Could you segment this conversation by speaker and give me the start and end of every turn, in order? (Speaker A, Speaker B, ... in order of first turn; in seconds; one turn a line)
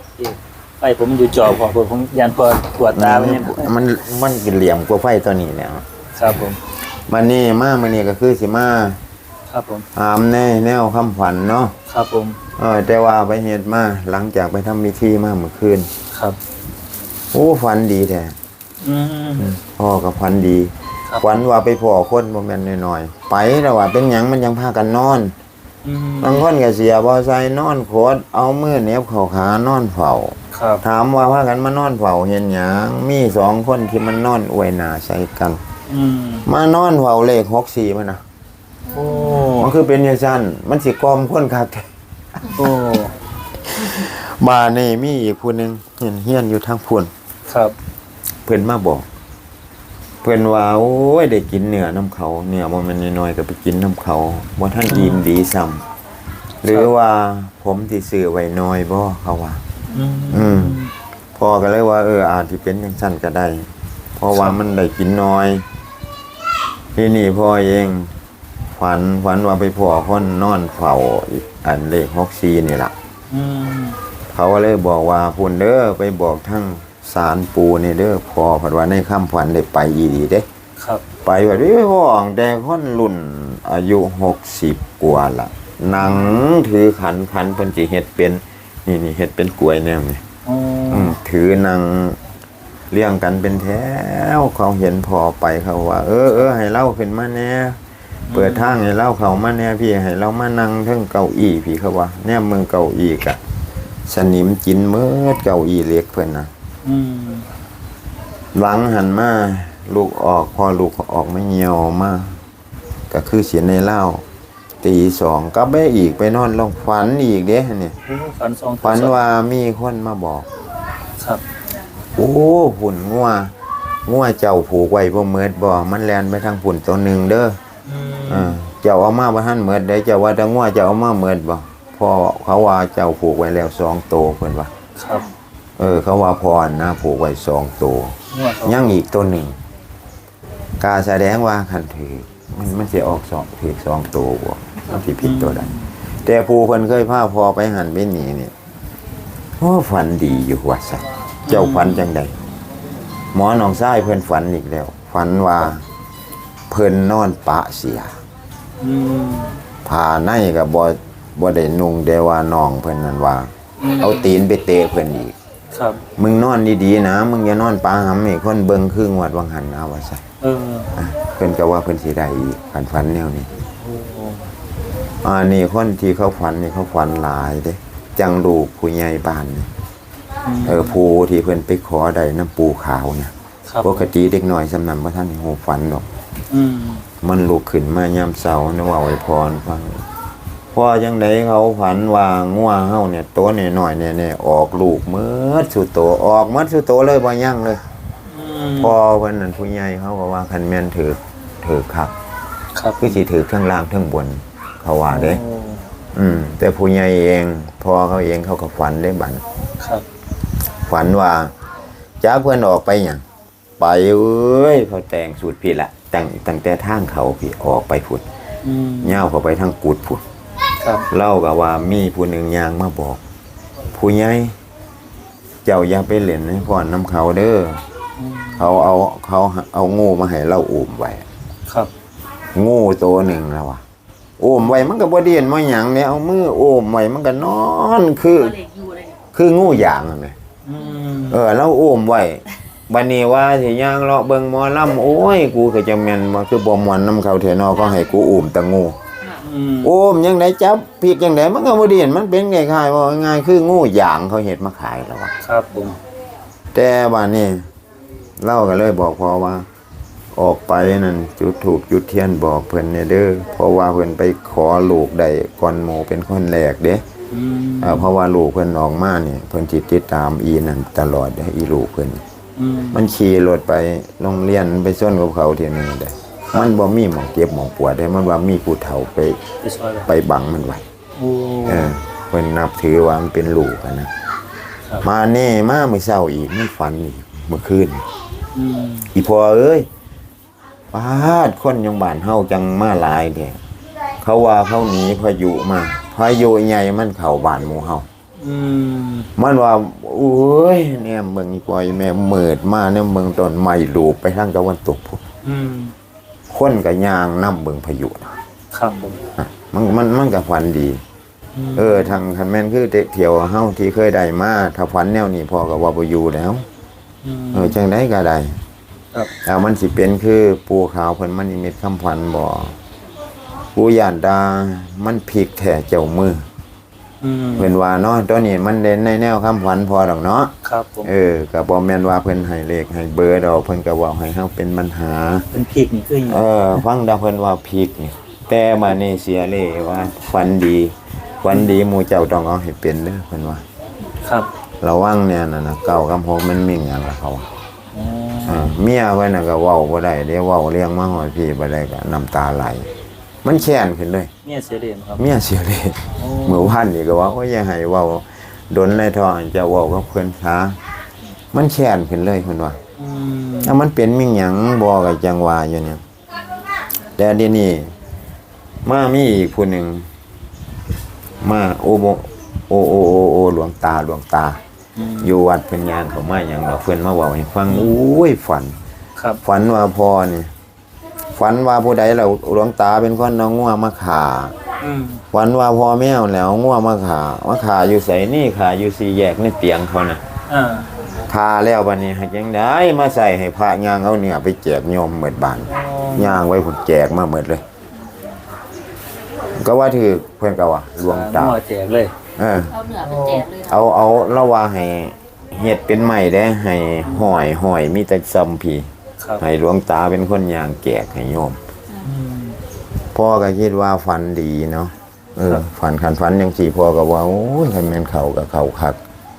Speaker A: 0.2-3.7
Speaker B: 2.9-5.9
Speaker A: 6.2-6.6
Speaker B: 6.9-9.0
Speaker A: 9.5-9.9
Speaker B: 9.9-11.8
Speaker A: 11.9-12.4
Speaker B: 12.6-15.9
Speaker A: 16.1-16.4
Speaker B: 17.3-18.4
Speaker A: 18.8-19.5
Speaker B: 19.4-25.4
Speaker A: 25.8-26.4
Speaker B: 26.2-35.6
Speaker A: 30.5-30.8
Speaker A: 35.9-36.5
Speaker B: 36.5-38.2
Speaker A: 38.9-39.7
Speaker B: 39.6-41.9
Speaker A: 42.5-43.1
Speaker B: 43.7-47.1
Speaker A: 47.5-47.8
Speaker B: 48.5-49.1
Speaker B: 50.2-55.8
Speaker A: 54.9-55.2
Speaker B: 56.6-59.6
Speaker A: 59.9-60.9
Speaker B: 60.3-60.8
Speaker B: 61.4-65.7
Speaker A: 64.3-64.6
Speaker B: 67.0-68.1
Speaker B: 68.8-72.9
Speaker A: 73.3-74.0
Speaker B: 74.3-80.5
Speaker A: 80.8-81.0
Speaker B: 81.2-90.2
Speaker A: 86.0-86.5
Speaker A: 90.5-91.2
Speaker B: 90.9-92.2
Speaker B: 92.9-97.8
Speaker A: 98.3-98.8
Speaker B: 98.3-103.4
Speaker B: 104.1-106.5
Speaker A: 106.8-107.5
Speaker B: 108.5-112.4
Speaker B: 113.1-114.2
Speaker B: 114.8-118.0
Speaker A: 118.0-119.2
Speaker B: 118.8-120.5
Speaker A: 121.2-121.4
Speaker B: 122.2-123.5
Speaker B: 124.1-127.6
Speaker A: 127.8-128.6
Speaker B: 128.3-134.7
Speaker A: 135.0-135.3
Speaker B: 135.8-139.6
Speaker A: 138.3-138.9
Speaker B: 140.8-148.5
Speaker A: 144.9-145.9
Speaker B: 149.6-152.4
Speaker A: 151.5-152.1
Speaker B: 153.3-155.8
Speaker B: 156.7-158.2
Speaker A: 158.8-159.6
Speaker B: 159.9-165.3
Speaker A: 163.8-164.3
Speaker A: 165.7-166.0
Speaker B: 166.2-170.2
Speaker A: 170.4-170.9
Speaker B: 171.0-173.5
Speaker A: 173.8-174.5
Speaker B: 175.2-179.7
Speaker A: 180.4-181.0
Speaker B: 180.7-186.1
Speaker A: 183.7-184.1
Speaker A: 186.5-187.1
Speaker B: 187.2-190.1
Speaker B: 190.7-197.8
Speaker A: 198.3-199.0
Speaker B: 198.8-202.1
Speaker A: 202.7-203.2
Speaker B: 203.0-205.4
Speaker A: 205.1-205.8
Speaker B: 206.1-209.4
Speaker A: 209.8-210.1
Speaker B: 210.9-211.5
Speaker B: 212.2-213.2
Speaker B: 213.8-218.2
Speaker A: 218.6-219.2
Speaker B: 219.0-220.2
Speaker A: 220.8-221.1
Speaker B: 221.1-223.2
Speaker B: 223.9-224.6
Speaker B: 225.6-227.8
Speaker A: 228.2-228.7
Speaker B: 228.6-231.3
Speaker B: 232.6-233.8
Speaker B: 234.4-238.5
Speaker C: 238.3-239.2
Speaker B: 239.3-240.3
Speaker A: 239.6-239.9
Speaker A: 240.7-241.4
Speaker B: 241.3-249.0
Speaker A: 249.4-249.9
Speaker B: 249.8-255.3
Speaker A: 255.4-256.0
Speaker B: 256.7-257.7
Speaker B: 258.4-259.7
Speaker B: 260.4-267.1
Speaker A: 267.3-268.1
Speaker B: 267.8-272.2
Speaker A: 272.6-273.1
Speaker B: 272.9-279.4
Speaker A: 279.6-280.1
Speaker B: 280.1-280.9
Speaker A: 281.2-281.9
Speaker B: 281.6-284.1
Speaker B: 285.0-288.1
Speaker A: 288.5-289.1
Speaker B: 289.1-289.9
Speaker B: 290.9-293.6
Speaker B: 294.2-298.1
Speaker A: 298.4-299.3
Speaker B: 299.4-305.2
Speaker A: 305.4-305.9
Speaker B: 306.5-308.4
Speaker A: 308.7-309.2
Speaker B: 309.4-311.0
Speaker A: 311.5-312.2
Speaker B: 311.8-316.6
Speaker A: 317.2-317.8
Speaker B: 317.5-318.6
Speaker B: 319.4-322.8
Speaker B: 323.8-326.5
Speaker A: 327.2-327.7
Speaker B: 327.6-330.5
Speaker A: 330.6-331.1
Speaker B: 331.0-335.5
Speaker A: 335.5-336.8
Speaker B: 336.3-343.6
Speaker A: 344.2-344.5
Speaker B: 344.8-347.5
Speaker A: 347.9-348.7
Speaker B: 348.5-352.9
Speaker B: 353.4-354.3
Speaker A: 354.4-355.3
Speaker B: 355.2-360.8
Speaker A: 356.2-356.8
Speaker B: 361.5-362.8
Speaker A: 363.0-363.8
Speaker B: 363.6-366.0
Speaker B: 367.2-367.9
Speaker B: 368.9-370.1
Speaker B: 371.4-374.6
Speaker A: 375.0-375.3
Speaker B: 375.2-378.8
Speaker A: 377.7-378.0
Speaker B: 379.4-380.5
Speaker B: 381.4-384.6
Speaker A: 384.8-385.2
Speaker B: 385.3-390.2
Speaker A: 390.5-390.9
Speaker B: 391.3-397.6
Speaker A: 395.7-396.4
Speaker B: 399.6-401.6
Speaker A: 401.0-402.1
Speaker B: 402.4-402.7
Speaker C: 402.7-403.9
Speaker A: 403.0-403.5
Speaker B: 403.7-411.6
Speaker A: 412.0-412.6
Speaker B: 413.1-419.0